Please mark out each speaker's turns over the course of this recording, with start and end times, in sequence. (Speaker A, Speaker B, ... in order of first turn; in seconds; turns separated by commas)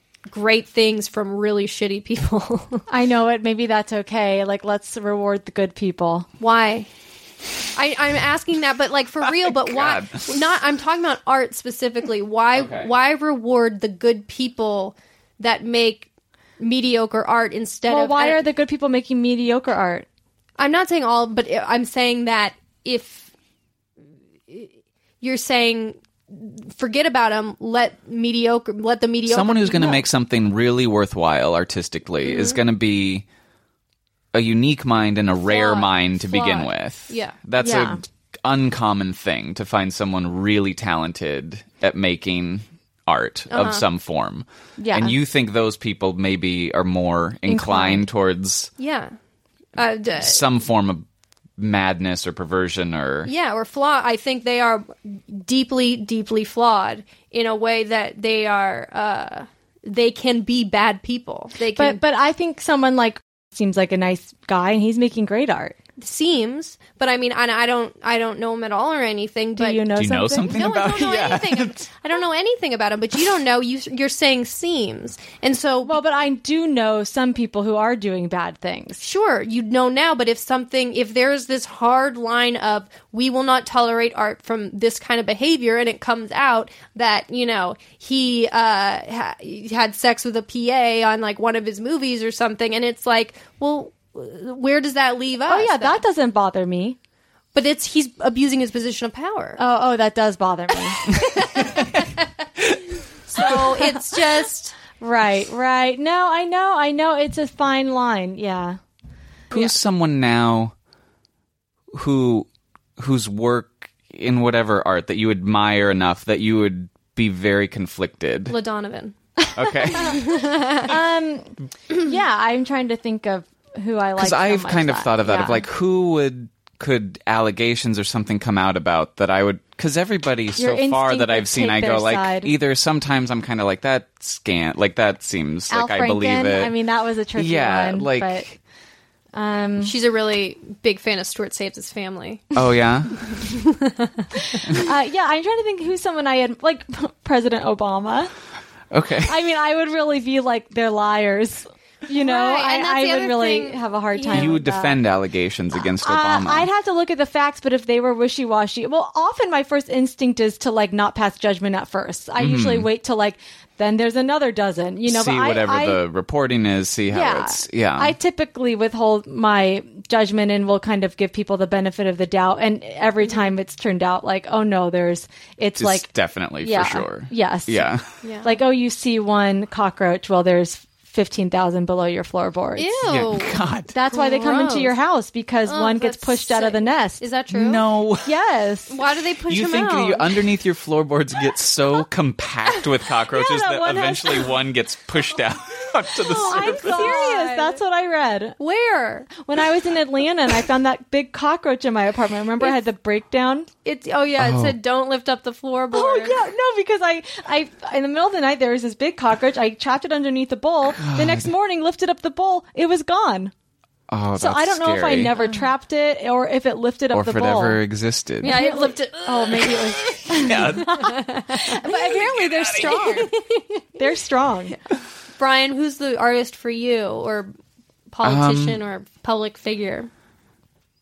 Speaker A: 0.3-2.9, Speaker B: 2.9-6.3, Speaker A: 6.4-6.9, Speaker A: 7.8-16.1, Speaker C: 9.5-10.4, Speaker C: 12.6-12.9, Speaker A: 16.6-18.4, Speaker B: 17.9-20.1, Speaker A: 20.6-23.3, Speaker A: 25.2-30.0, Speaker C: 29.3-33.3, Speaker A: 32.2-32.6, Speaker C: 34.3-48.7, Speaker A: 35.5-37.4, Speaker B: 37.6-38.0, Speaker A: 43.5-43.9, Speaker B: 44.8-45.1, Speaker B: 47.5-48.1, Speaker A: 48.8-49.1, Speaker A: 49.8-50.4, Speaker C: 50.2-51.1, Speaker C: 51.6-53.3, Speaker A: 53.3-62.0, Speaker B: 61.8-65.8, Speaker A: 66.0-69.9, Speaker B: 69.6-70.7, Speaker C: 70.0-71.8, Speaker A: 70.4-76.0, Speaker B: 75.8-79.0, Speaker A: 79.0-96.0, Speaker B: 95.5-97.0, Speaker A: 97.5-99.6, Speaker B: 99.6-101.1, Speaker A: 101.1-102.0, Speaker A: 103.3-104.8, Speaker B: 103.4-104.0, Speaker B: 105.0-108.8, Speaker C: 109.5-110.7, Speaker C: 111.9-118.6, Speaker A: 118.5-119.1, Speaker B: 119.4-120.1, Speaker C: 119.5-120.5, Speaker A: 119.9-120.9, Speaker B: 120.9-125.6, Speaker C: 124.2-136.7, Speaker B: 130.6-132.5, Speaker B: 135.7-138.5, Speaker C: 137.4-138.6, Speaker B: 139.3-139.9, Speaker A: 139.8-142.4, Speaker C: 142.5-143.4, Speaker A: 143.3-144.2, Speaker B: 144.5-148.3, Speaker C: 148.9-149.3, Speaker B: 149.2-155.0, Speaker A: 152.2-154.6, Speaker C: 154.3-156.7, Speaker B: 155.8-166.0, Speaker C: 162.4-162.9, Speaker C: 165.1-168.2, Speaker B: 167.1-176.1, Speaker C: 175.8-178.1, Speaker B: 176.6-177.9, Speaker A: 178.2-178.6, Speaker B: 178.4-183.0, Speaker A: 182.8-185.0, Speaker C: 183.1-183.9, Speaker B: 183.9-187.2, Speaker A: 185.7-187.8, Speaker C: 187.5-188.3, Speaker B: 188.2-189.0, Speaker A: 188.9-190.4, Speaker C: 189.5-197.2, Speaker B: 193.3-194.5, Speaker A: 196.2-197.8, Speaker B: 196.3-198.6, Speaker A: 198.6-199.3, Speaker B: 199.4-203.7, Speaker A: 203.8-206.4, Speaker C: 204.4-204.8, Speaker B: 205.9-213.5, Speaker C: 211.0-211.5, Speaker C: 214.1-215.4, Speaker B: 214.4-217.8, Speaker C: 217.1-218.7, Speaker A: 218.4-223.8, Speaker B: 218.4-223.3, Speaker C: 220.3-221.2, Speaker C: 222.3-222.9, Speaker B: 224.0-224.8, Speaker A: 225.4-227.5, Speaker A: 228.1-230.1, Speaker C: 228.2-228.8